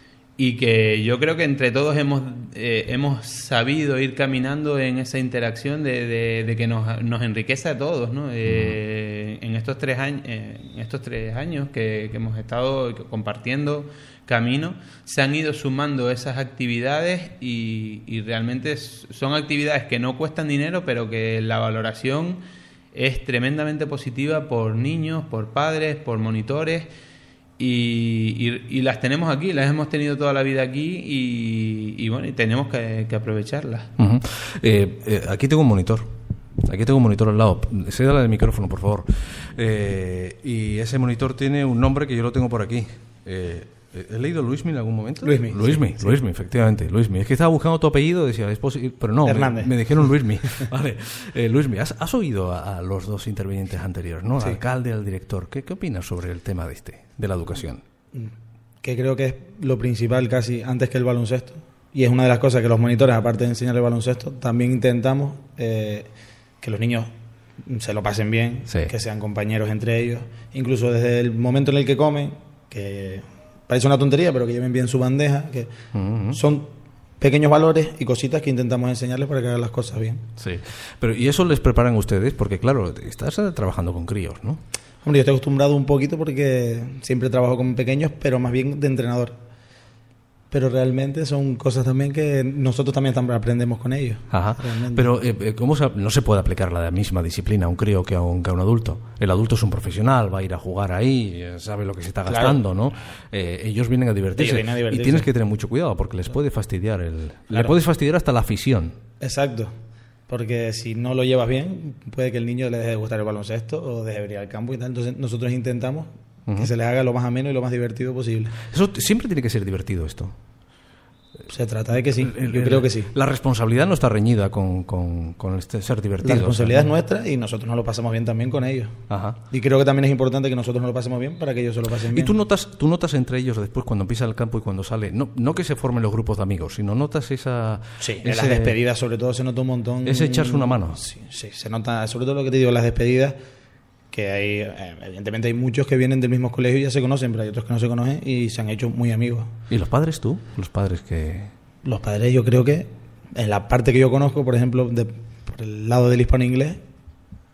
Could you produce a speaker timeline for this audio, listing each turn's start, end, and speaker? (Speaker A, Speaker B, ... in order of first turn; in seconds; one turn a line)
Speaker A: 0.4-26.9
Speaker B: 8.5-8.8
Speaker A: 27.6-33.9
Speaker B: 34.0-36.1
Speaker B: 36.6-57.8
Speaker C: 45.2-46.1
Speaker C: 49.2-50.1
Speaker C: 58.1-66.1
Speaker C: 66.6-67.1
Speaker C: 67.6-75.7
Speaker B: 68.7-68.9
Speaker B: 75.9-76.4
Speaker C: 76.3-80.2
Speaker B: 80.4-84.6
Speaker C: 85.0-89.3
Speaker C: 90.5-95.1
Speaker B: 94.3-109.0
Speaker C: 102.2-102.6
Speaker C: 104.3-105.3
Speaker C: 107.5-107.7
Speaker C: 109.2-109.7
Speaker C: 110.3-118.6
Speaker B: 118.7-120.3
Speaker C: 121.5-123.1
Speaker B: 122.2-126.9
Speaker C: 126.2-132.3
Speaker B: 129.1-129.4
Speaker B: 132.1-138.8
Speaker C: 138.0-143.4
Speaker B: 140.0-141.0
Speaker C: 144.1-149.5
Speaker B: 149.7-151.5
Speaker C: 151.8-156.8